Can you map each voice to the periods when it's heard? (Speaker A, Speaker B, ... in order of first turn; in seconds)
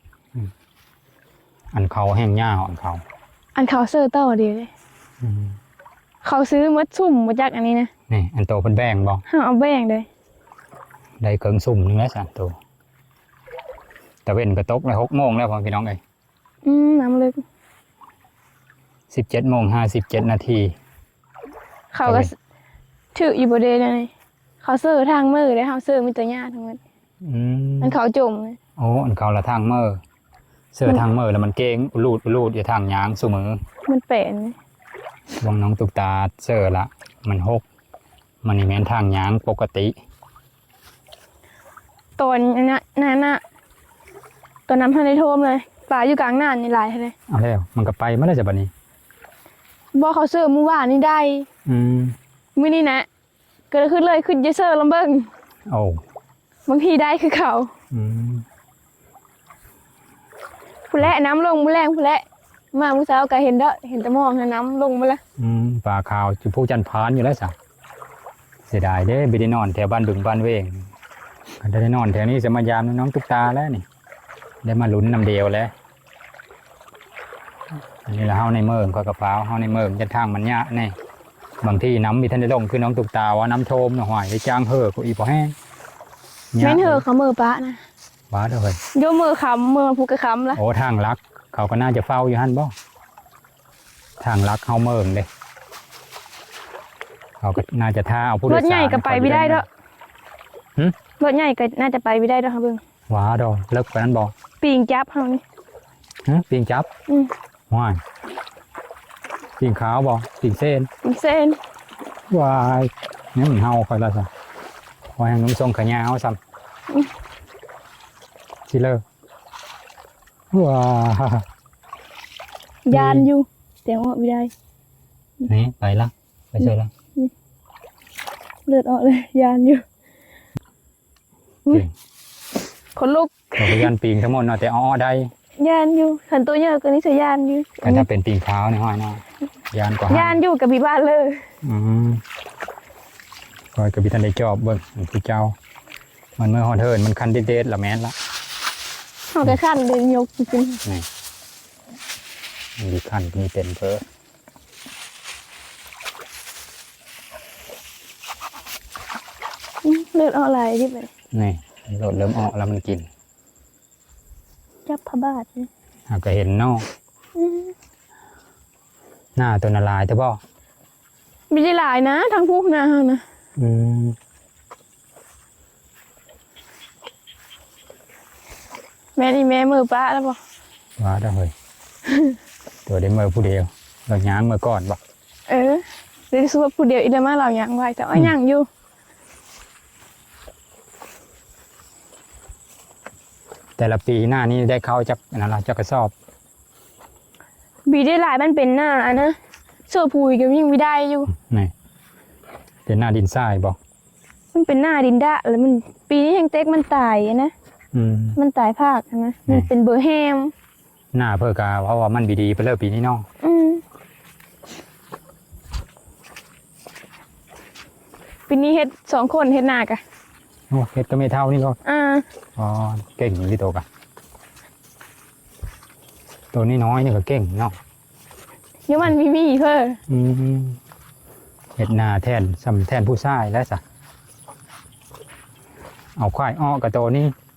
Speaker A: 1.7-3.0, 5.2-5.5, 8.1-9.2, 11.2-12.6, 14.2-16.0, 19.1-20.7, 22.0-22.3, 27.2-28.0, 28.8-30.0, 30.7-33.6, 35.4-37.6, 38.4-40.0, 47.3-48.7, 51.6-52.2, 55.7-56.0, 57.9-58.5, 65.4-67.5, 68.7-70.9, 71.6-73.8, 74.6-75.7, 78.0-81.0, 81.6-85.5, 86.5-87.0, 88.3-88.8, 90.5-92.7, 94.2-95.3, 97.4-99.6, 103.1-104.3, 106.2-106.9, 107.7-108.0, 109.6-110.9, 112.3-114.3, 115.2-116.4, 118.7-119.0, 120.5-121.5, 122.9-123.3, 125.4-126.9, 133.6-135.3, 137.8-140.4, 141.6-142.2, 143.7-145.6, 146.4-148.1, 152.8-154.0, 161.3-163.1, 166.1-166.9, 169.4-170.4, 173.6-174.2, 181.0-181.5, 182.8-185.0, 193.8-196.1, 201.3-201.7, 202.8-203.8, 207.9-208.4, 211.1-213.2, 220.7-221.8, 222.6-223.8, 226.5-227.8, 230.1-230.8, 231.8-233.8, 236.2-237.3
Speaker B: 3.5-4.7, 6.2-7.9, 9.3-10.1, 16.6-17.4, 21.9-22.3, 23.1-26.8, 27.8-28.6, 33.9-34.5, 42.2-43.4, 44.7-47.1, 49.9-51.5, 52.5-53.0, 53.7-55.3, 56.7-57.7, 60.9-65.2, 86.6-87.8, 88.9-90.6, 98.5-99.6, 101.2-102.8, 104.6-105.4, 111.0-111.6, 122.8-124.5, 126.6-127.3, 128.7-129.8, 132.9-133.9, 135.6-138.1, 140.1-141.4, 149.3-150.8, 159.8-161.1, 164.8-165.7, 167.3-167.7, 171.5-173.2, 179.2-180.4, 182.1-182.3, 185.5-188.7, 197.9-199.3, 199.9-201.3, 204.5-207.5, 208.4-210.5, 213.4-213.8, 218.5-220.0, 221.8-222.2, 228.9-230.0